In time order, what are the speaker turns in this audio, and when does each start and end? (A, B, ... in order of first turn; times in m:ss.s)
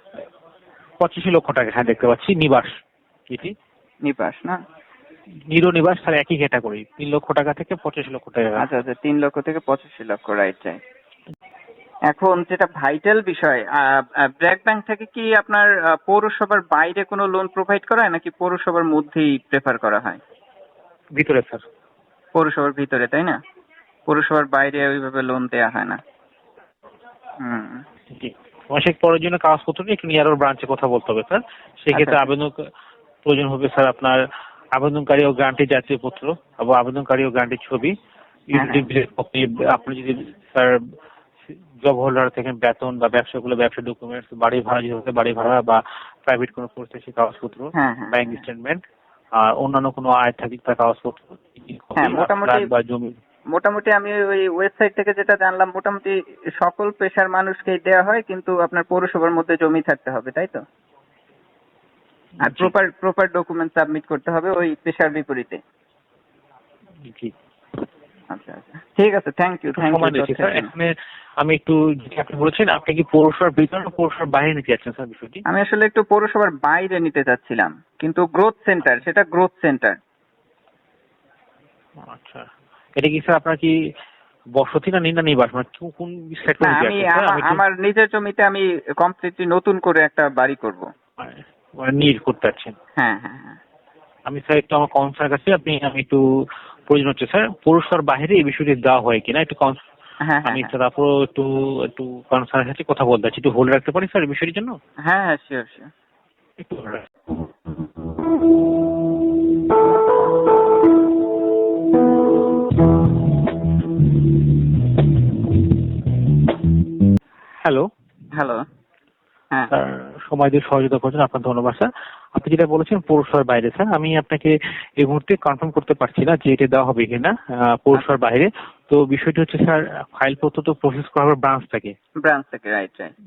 0:01.0-0:02.7 A
0:04.0-0:04.6 B
0:05.5-0:08.7 A
0:08.6-0:10.8 B
0:12.1-0:20.2 B
0:21.1-0:21.6 A
0:22.3-0:23.4 B
0:24.1-0:26.0 B
0:27.4-0:27.8 B
0:28.1-0:32.6 A
0:31.9-0:32.2 B
0:33.2-0:34.2 A
0:34.8-0:37.9 A
0:38.5-0:40.8 A
0:38.5-0:38.9 B
0:41.8-0:48.8 A
0:47.8-0:48.4 B
0:49.4-0:53.2 A
0:52.0-0:52.6 B
0:53.5-1:00.6 B
1:02.4-1:02.7 A
1:02.4-1:05.6 B
1:07.0-1:07.3 A
1:08.3-1:10.7 B
1:09.7-1:15.4 A
1:15.5-1:20.0 B
1:22.0-1:23.7 A
1:24.6-1:27.6 A
1:26.6-1:30.9 B
1:31.2-1:32.7 A
1:33.0-1:33.6 B
1:34.3-1:36.2 A
1:36.9-1:39.8 A
1:40.2-1:40.7 B
1:40.4-1:44.8 A
1:45.1-1:45.9 B
1:46.6-1:47.0 A
1:57.6-1:57.9 A
1:58.4-1:58.6 B
1:59.7-2:11.9 A
2:12.2-2:13.1 B